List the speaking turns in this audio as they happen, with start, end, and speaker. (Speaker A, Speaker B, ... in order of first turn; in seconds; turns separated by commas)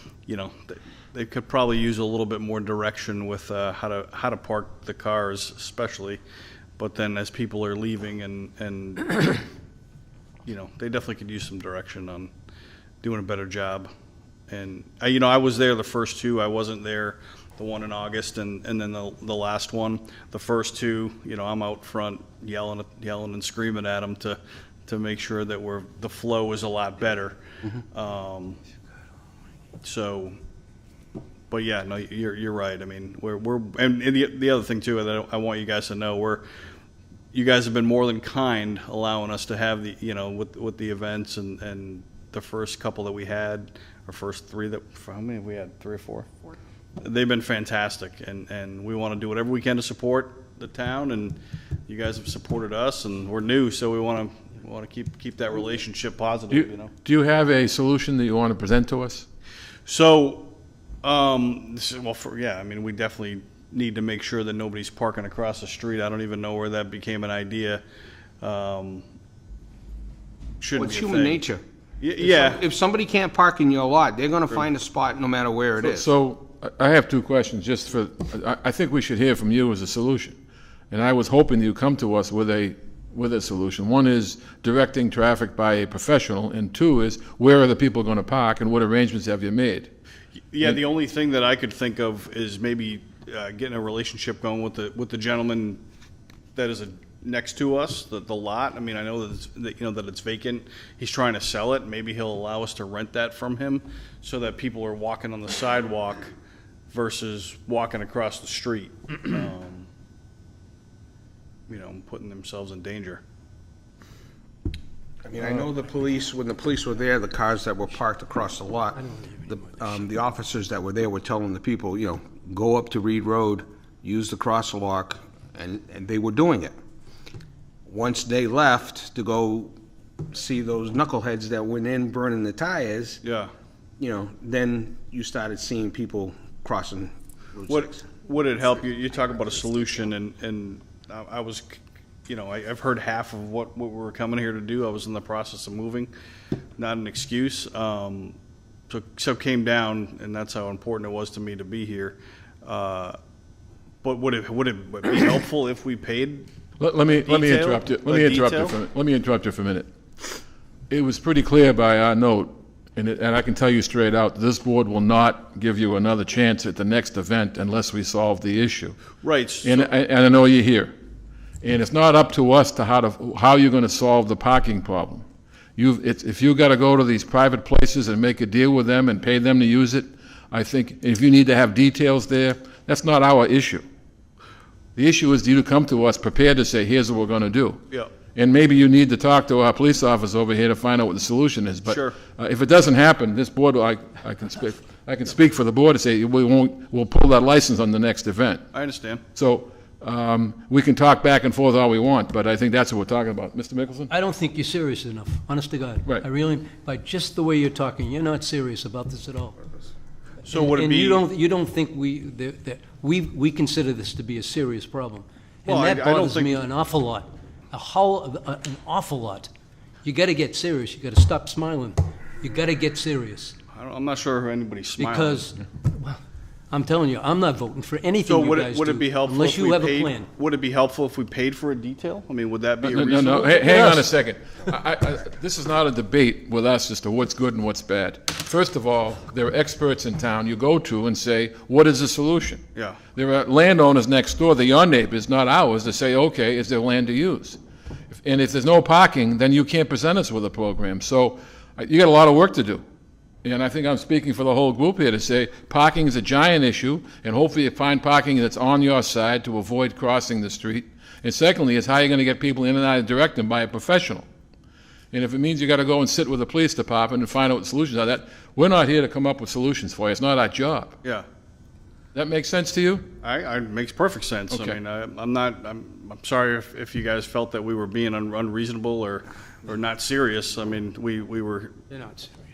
Speaker A: 0.3-6.2, Speaker A: 6.8-9.4, Speaker A: 10.4-12.3, Speaker A: 13.0-13.9, Speaker A: 14.5-28.6, Speaker A: 29.8-30.4, Speaker A: 31.5-36.4, Speaker A: 37.3-46.3, Speaker A: 47.0-51.4, Speaker A: 51.9-56.9, Speaker B: 56.5-59.2, Speaker A: 59.9-67.8, Speaker A: 68.4-69.0, Speaker A: 70.6-71.4, Speaker C: 70.7-71.6, Speaker A: 72.0-72.6, Speaker C: 72.2-76.1, Speaker B: 75.8-80.4, Speaker B: 80.9-89.9, Speaker A: 90.5-95.8, Speaker A: 96.5-106.3, Speaker A: 106.9-109.9, Speaker A: 111.7-113.2, Speaker C: 115.2-126.7, Speaker D: 118.9-120.0, Speaker C: 127.9-133.2, Speaker A: 133.2-133.5, Speaker C: 134.0-138.0, Speaker A: 137.7-146.1, Speaker A: 146.8-148.4, Speaker A: 148.9-153.2, Speaker A: 154.0-156.5, Speaker B: 156.8-159.9, Speaker A: 157.2-158.8, Speaker B: 160.9-170.9, Speaker A: 169.2-169.9, Speaker B: 171.6-175.2, Speaker B: 175.8-183.8, Speaker B: 184.9-187.8, Speaker B: 188.3-198.6, Speaker A: 191.8-192.2, Speaker A: 198.7-199.2, Speaker B: 199.3-204.1, Speaker D: 204.1-209.6, Speaker D: 210.4-219.5, Speaker A: 210.5-211.2, Speaker A: 215.7-216.6, Speaker D: 220.0-223.6, Speaker A: 223.7-225.5, Speaker D: 225.0-230.3, Speaker A: 228.2-234.0, Speaker B: 232.8-242.6, Speaker A: 242.7-243.0, Speaker B: 243.1-247.6, Speaker B: 248.1-252.8, Speaker B: 253.4-264.2, Speaker B: 265.1-271.0, Speaker B: 272.1-273.1, Speaker A: 273.2-281.8, Speaker B: 274.5-274.8, Speaker D: 281.9-282.3